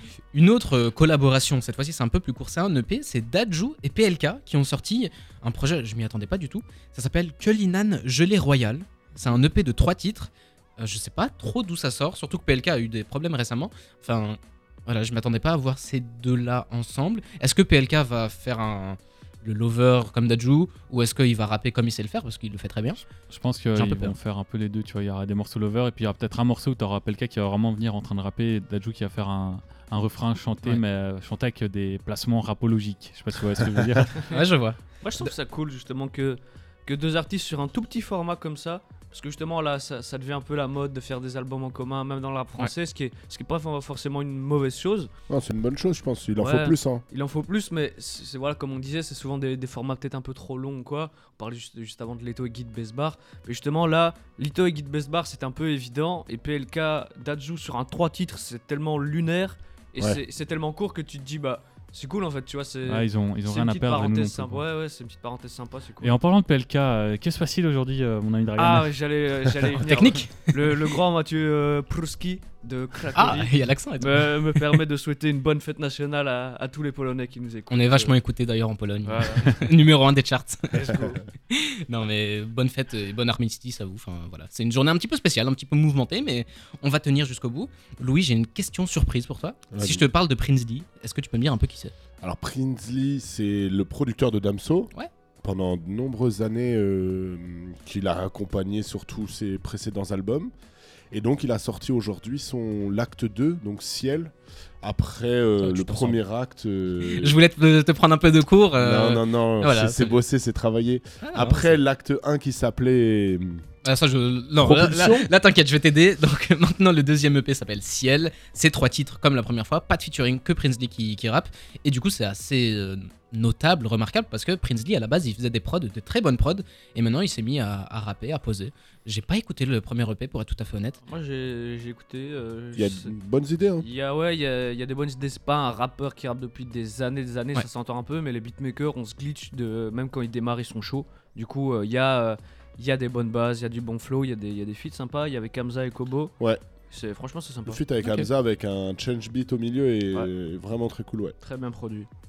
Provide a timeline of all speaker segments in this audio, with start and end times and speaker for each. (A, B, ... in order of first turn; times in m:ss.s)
0:00.3-0:23.0 A
0:23.3-0:34.3 B
0:23.8-0:24.2 A
0:34.2-0:35.3 A
0:35.0-0:45.1 C
0:45.3-0:47.0 D
0:46.4-1:06.2 C
1:02.9-1:04.6 B
1:06.0-1:08.9 B
1:08.6-1:18.2 C
1:09.8-1:10.5 A
1:13.1-1:14.8 A
1:17.7-1:20.9 A
1:19.0-1:19.7 C
1:20.7-1:21.2 C
1:21.5-1:31.9 A
1:29.7-1:30.1 D
1:32.2-1:40.5 D
1:41.1-1:47.4 D
1:45.6-1:46.2 A
1:47.0-1:50.2 A
1:48.8-1:53.6 D
1:51.2-1:51.8 A
1:53.8-2:11.0 A
1:54.6-1:55.3 D
2:11.1-2:13.1 C
2:12.8-2:13.9 D
2:13.8-2:26.3 C
2:26.9-2:27.8 C
2:27.7-2:31.4 D
2:28.0-2:28.3 A
2:31.4-2:32.1 C